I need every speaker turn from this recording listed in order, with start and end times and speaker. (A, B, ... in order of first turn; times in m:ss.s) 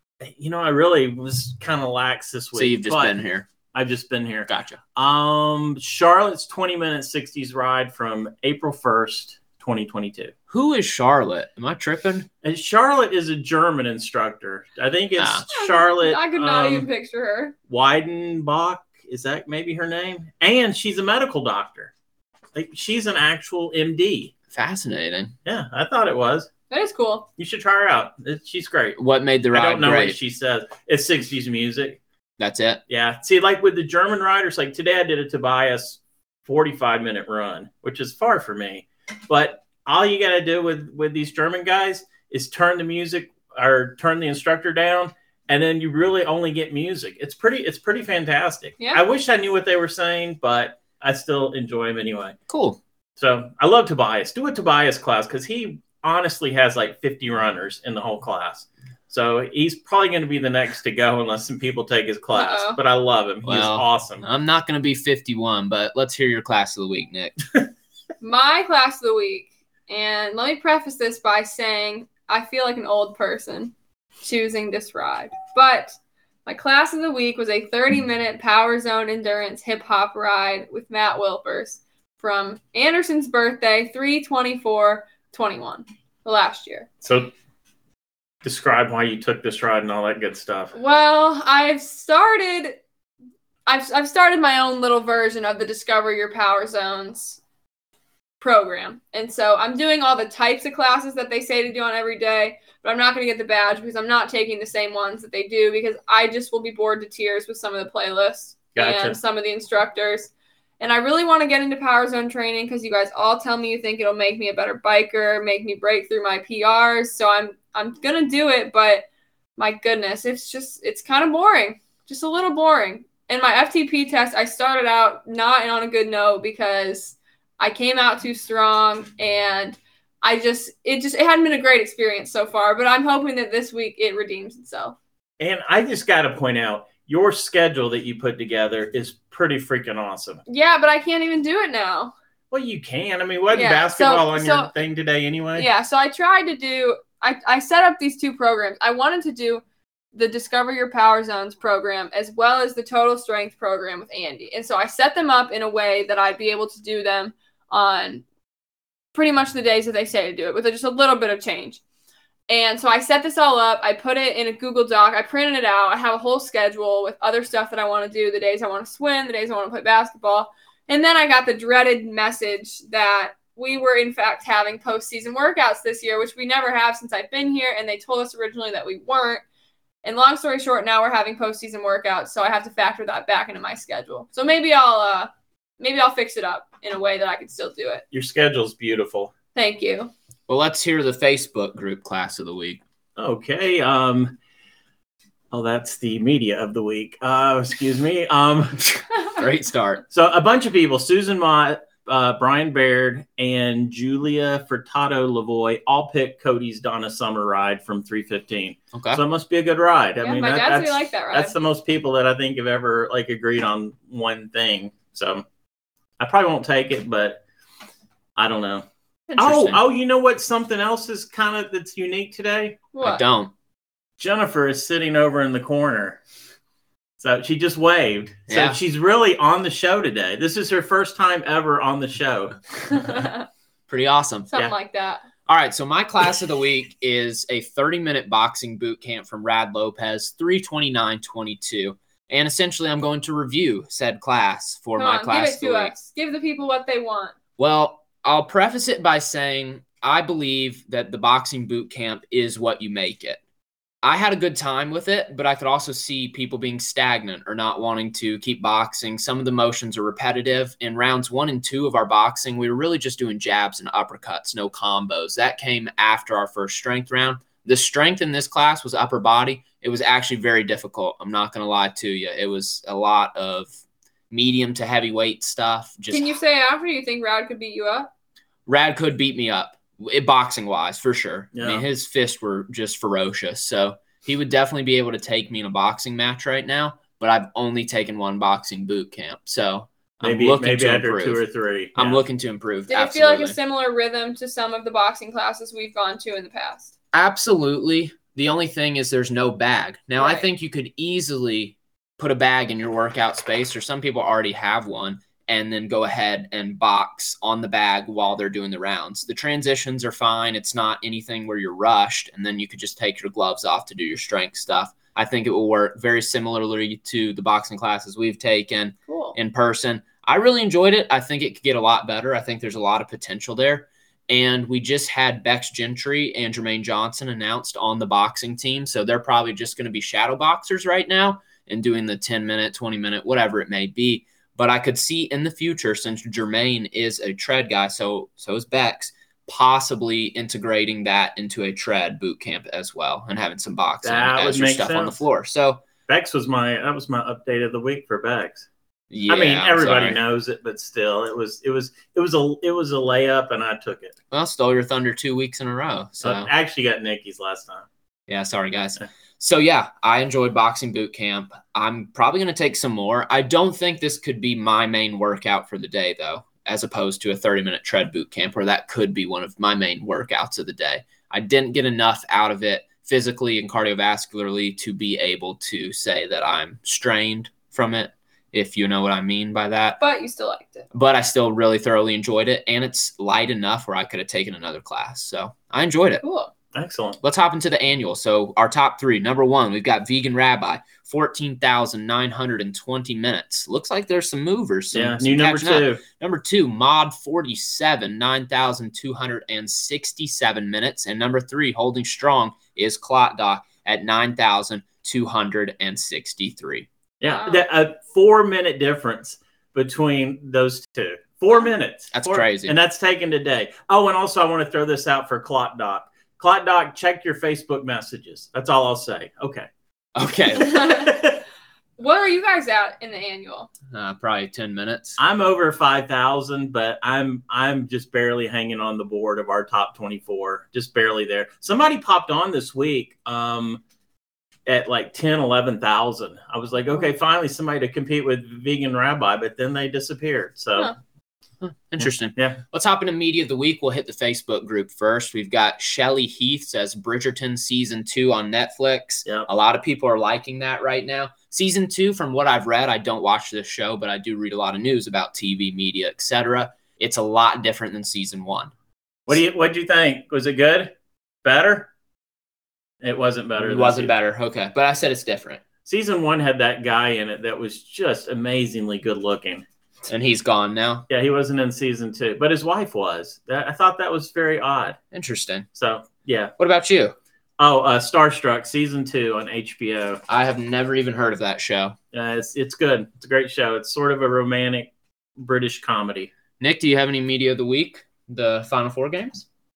0:00.2-0:03.2 A
0:02.5-0:03.5 B
0:03.7-0:10.3 A
0:04.5-0:04.8 B
0:10.5-0:12.3 B
0:12.4-0:16.9 A
0:15.2-0:15.4 B
0:15.5-0:17.5 C
0:17.7-0:21.9 A
0:22.5-0:24.3 A
0:24.5-0:25.3 B
0:25.4-0:26.5 A
0:26.7-0:27.3 C
0:27.4-0:29.0 A
0:29.0-0:30.2 B
0:29.5-0:32.0 A
0:32.4-0:32.8 B
0:32.9-0:52.4 A
0:52.5-0:52.8 B
0:53.2-1:04.2 A
1:02.3-1:02.8 C
1:03.4-1:07.4 B
1:08.2-1:26.9 C
1:27.0-1:27.3 A
1:28.4-1:30.7 A
1:30.7-1:32.8 C
1:33.6-1:37.4 C
1:38.4-1:59.0 C
1:48.8-1:49.2 A
1:59.6-2:15.0 C
2:15.4-2:20.4 A
2:20.5-2:22.1 C
2:22.5-2:25.7 A
2:23.5-2:24.7 C
2:25.6-2:29.6 C
2:30.1-2:38.2 C
2:39.1-2:41.8 C
2:42.5-2:59.4 C
3:00.0-3:08.0 C
3:08.1-3:09.3 A
3:09.5-3:10.1 C
3:10.5-3:12.8 B
3:13.2-3:14.4 A
3:15.5-3:18.8 A
3:18.9-3:20.0 B
3:20.1-3:35.4 A
3:28.9-3:29.2 B
3:30.2-3:31.5 C
3:36.2-3:37.4 A
3:38.4-3:38.8 A
3:39.3-3:39.8 B
3:39.4-3:42.8 A
3:42.9-3:43.2 C
3:43.0-3:43.5 B
3:44.2-3:46.2 A
3:47.2-3:52.6 A
3:48.5-3:48.8 B
3:52.9-3:53.4 C
3:53.9-3:54.5 B
3:54.5-3:55.2 C
3:55.5-4:05.9 B
4:05.0-4:07.3 C
4:07.6-4:13.4 B
4:14.0-4:33.7 B
4:34.3-4:36.3 B
4:36.1-4:38.1 C
4:38.7-4:51.4 B
4:41.5-4:41.8 A
4:50.2-4:52.2 A
4:52.0-4:53.6 B
4:52.9-4:56.9 C
4:57.1-5:45.8 B
5:00.2-5:00.4 C
5:19.1-5:19.3 C
5:44.0-5:45.2 A
5:46.1-5:48.7 A
5:49.1-5:50.2 B
5:49.3-5:54.1 A
5:54.3-5:56.5 B
5:56.2-5:57.9 A
5:58.3-6:20.0 B
6:20.0-6:20.9 C
6:20.9-6:26.2 B
6:26.2-6:26.5 C
6:26.7-6:27.2 A
6:27.2-6:46.9 B
6:34.9-6:36.0 A
6:47.2-6:59.7 A
6:47.2-6:47.6 C
6:52.1-6:52.8 B
7:00.2-7:01.0 B
7:00.6-7:01.2 C
7:01.1-7:01.4 A
7:02.0-7:03.7 C
7:03.9-7:05.2 B
7:05.2-7:13.8 A
7:14.6-7:20.9 A
7:21.6-7:38.7 B
7:22.4-7:22.6 A
7:39.3-7:40.9 A
7:41.4-7:41.9 A
7:43.0-7:44.1 A
7:43.6-7:45.6 B
7:45.8-7:49.6 A
7:50.1-7:51.1 B
7:51.1-7:55.0 A
7:55.1-7:55.7 B
7:55.7-7:56.5 A
7:56.6-7:57.1 B
7:57.6-8:00.2 A
8:00.3-8:02.0 B
8:02.1-8:06.3 A
8:06.6-8:09.4 B